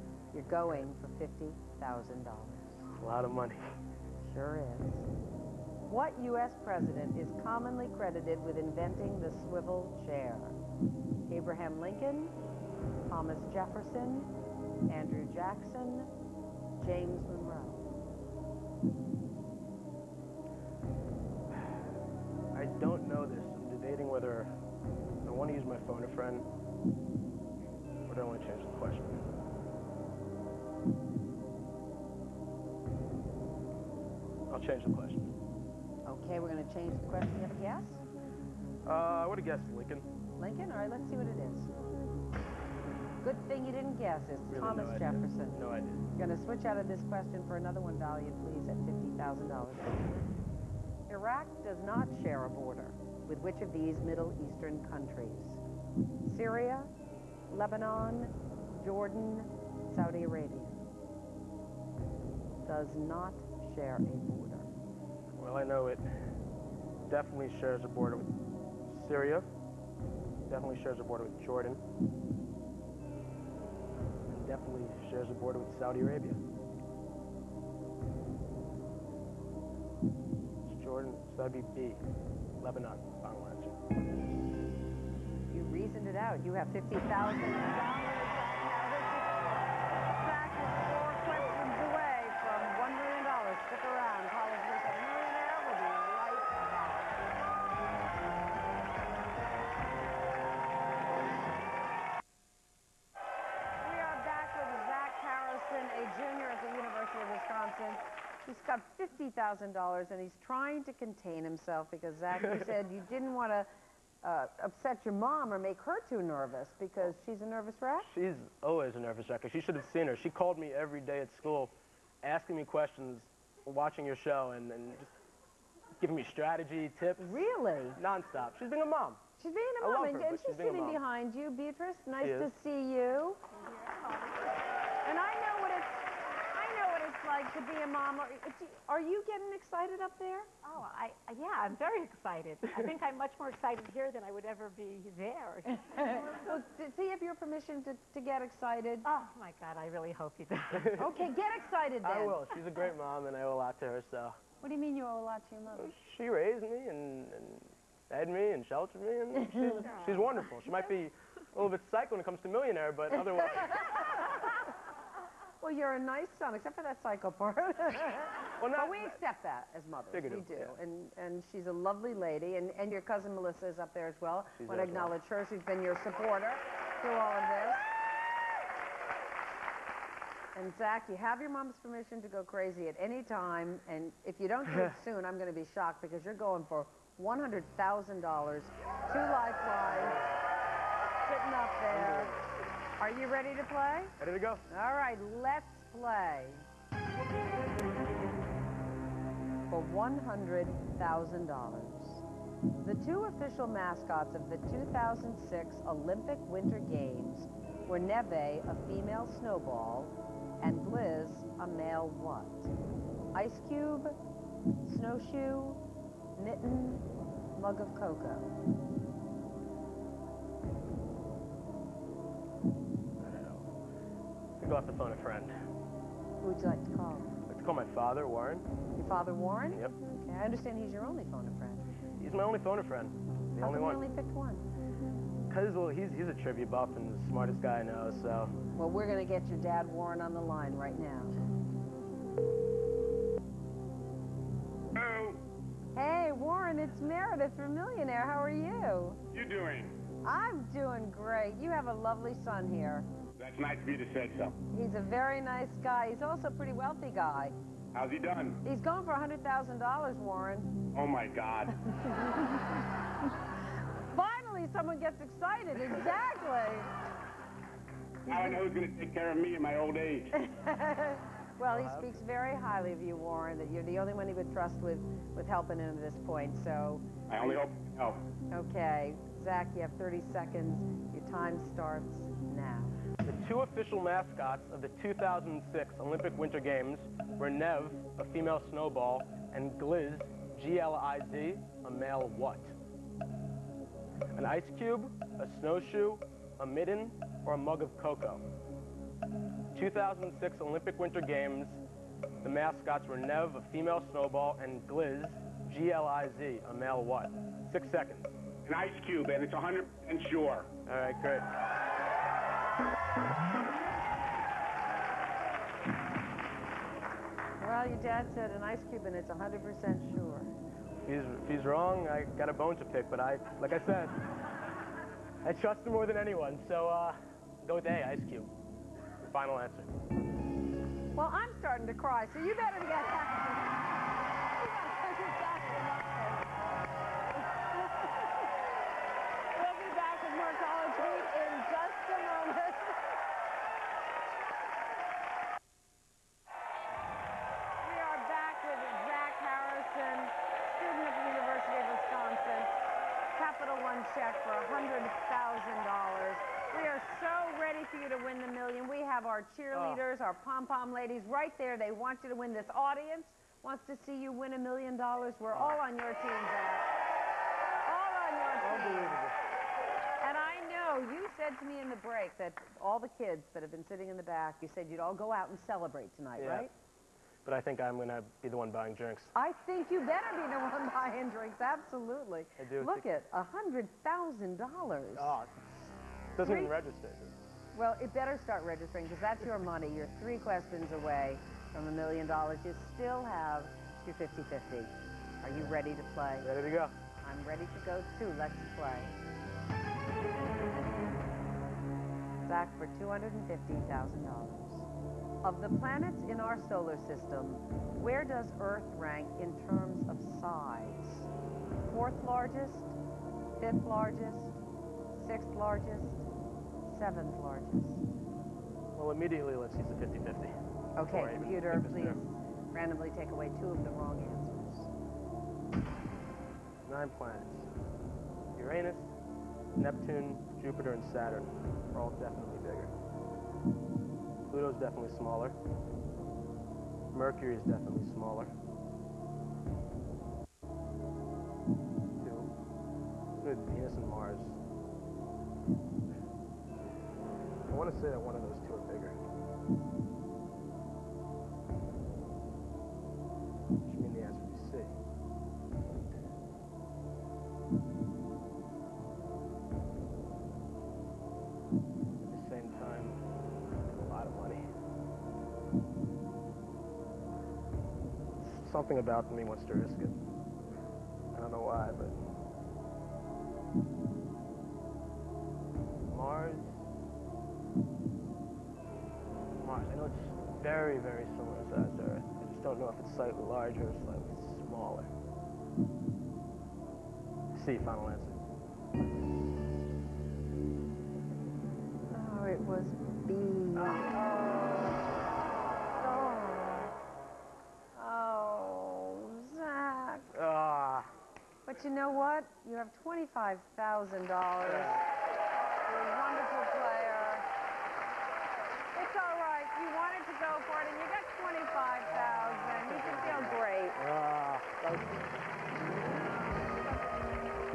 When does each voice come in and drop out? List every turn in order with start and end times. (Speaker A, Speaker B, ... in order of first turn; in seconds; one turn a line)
Speaker A: 0.3-2.9
Speaker B: 3.0-3.6
Speaker A: 4.2-5.1
Speaker A: 5.8-10.6
Speaker A: 11.3-12.3
Speaker A: 13.1-14.3
Speaker A: 14.9-16.1
Speaker A: 16.8-17.9
Speaker B: 21.5-21.8
Speaker B: 22.5-24.5
Speaker B: 25.2-26.5
Speaker B: 28.1-29.2
Speaker B: 34.5-35.3
Speaker A: 36.1-38.0
Speaker B: 38.8-40.1
Speaker A: 40.4-41.7
Speaker A: 43.2-45.6
Speaker B: 44.5-46.0
Speaker A: 46.1-50.0
Speaker A: 51.1-55.6
Speaker A: 56.2-56.9
Speaker A: 57.5-60.8
Speaker A: 62.6-64.7
Speaker B: 65.4-66.2
Speaker B: 67.1-68.3
Speaker B: 68.8-69.5
Speaker B: 70.5-71.8
Speaker B: 74.3-76.4
Speaker B: 80.7-82.0
Speaker B: 82.6-83.7
Speaker A: 85.5-97.2
Speaker A: 103.8-113.7
Speaker B: 112.4-112.7
Speaker A: 114.2-118.1
Speaker B: 118.0-121.7
Speaker B: 122.2-125.1
Speaker B: 126.0-127.4
Speaker A: 127.2-128.0
Speaker B: 128.0-129.2
Speaker A: 129.4-133.4
Speaker B: 129.8-131.0
Speaker B: 132.2-132.5
Speaker A: 135.0-140.5
Speaker C: 140.6-146.3
Speaker A: 145.8-149.1
Speaker C: 149.0-151.1
Speaker A: 150.9-152.5
Speaker B: 152.0-154.4
Speaker A: 154.6-155.9
Speaker B: 155.7-164.0
Speaker A: 159.3-159.9
Speaker C: 159.8-160.8
Speaker A: 163.1-164.5
Speaker A: 165.6-177.9
Speaker B: 168.6-169.2
Speaker B: 170.1-170.8
Speaker B: 174.5-175.1
Speaker A: 180.5-190.2
Speaker A: 191.2-192.3
Speaker B: 191.9-192.6
Speaker A: 193.0-194.1
Speaker B: 194.2-194.7
Speaker A: 194.7-196.7
Speaker A: 199.7-202.2
Speaker A: 202.8-212.7
Speaker A: 213.3-214.2
Speaker A: 214.8-215.8
Speaker A: 216.4-217.0
Speaker A: 217.6-218.5
Speaker B: 223.2-223.7
Speaker B: 224.6-225.5
Speaker A: 226.4-227.4
Speaker B: 227.5-228.7
Speaker A: 228.9-231.8
Speaker B: 232.2-234.0
Speaker A: 233.6-234.7
Speaker B: 235.5-238.6
Speaker A: 238.8-241.3
Speaker D: 244.9-245.4
Speaker A: 245.9-249.2
Speaker D: 249.3-250.0
Speaker A: 250.2-253.1
Speaker D: 253.4-254.6
Speaker A: 254.7-257.5
Speaker D: 257.9-258.6
Speaker A: 258.6-260.8
Speaker D: 260.9-261.8
Speaker A: 262.0-262.6
Speaker A: 264.1-266.9
Speaker A: 268.2-268.7
Speaker D: 268.3-270.4
Speaker A: 270.3-277.6
Speaker B: 271.6-272.2
Speaker D: 277.3-278.2
Speaker A: 278.5-283.0
Speaker B: 283.2-292.7
Speaker B: 294.3-298.4
Speaker B: 299.7-301.8
Speaker B: 302.4-308.3
Speaker D: 308.6-310.7
Speaker B: 310.8-311.5
Speaker A: 317.6-320.5
Speaker B: 321.1-324.1
Speaker B: 325.4-328.5
Speaker B: 329.3-329.9
Speaker A: 331.1-334.0
Speaker A: 334.5-336.6
Speaker A: 337.4-338.5
Speaker A: 339.5-343.1
Speaker A: 347.8-352.8
Speaker A: 353.3-366.9
Speaker B: 359.7-360.0
Speaker B: 365.5-365.8
Speaker A: 367.9-369.2
Speaker B: 368.6-369.4
Speaker A: 370.2-376.7
Speaker B: 376.4-376.7
Speaker B: 377.4-379.3
Speaker A: 379.3-385.4
Speaker B: 382.6-383.1
Speaker B: 385.1-385.7
Speaker B: 386.3-387.4
Speaker A: 386.4-386.8
Speaker A: 387.7-396.5
Speaker B: 396.4-396.9
Speaker A: 397.2-399.2
Speaker A: 402.4-404.9
Speaker A: 405.4-411.3
Speaker A: 411.8-412.9
Speaker A: 413.6-414.6
Speaker A: 415.1-416.2
Speaker A: 416.8-418.0
Speaker B: 418.9-420.6
Speaker A: 421.0-424.9
Speaker B: 421.1-422.2
Speaker B: 426.9-427.7
Speaker B: 428.6-429.1
Speaker B: 429.8-432.9
Speaker B: 434.5-435.6
Speaker B: 437.1-438.5
Speaker B: 442.2-442.5
Speaker B: 443.4-444.6
Speaker B: 447.7-449.2
Speaker B: 453.9-454.9
Speaker B: 462.2-463.2
Speaker B: 463.7-464.6
Speaker B: 468.4-470.2
Speaker B: 471.3-472.2
Speaker B: 476.1-476.8
Speaker B: 479.6-485.1
Speaker B: 487.5-488.4
Speaker A: 492.1-495.0
Speaker B: 493.8-494.1
Speaker A: 496.0-496.9
Speaker A: 497.9-500.3
Speaker B: 500.3-501.1
Speaker A: 501.6-505.0
Speaker B: 504.6-505.0
Speaker A: 505.9-507.5
Speaker A: 508.9-514.0
Speaker B: 512.2-515.2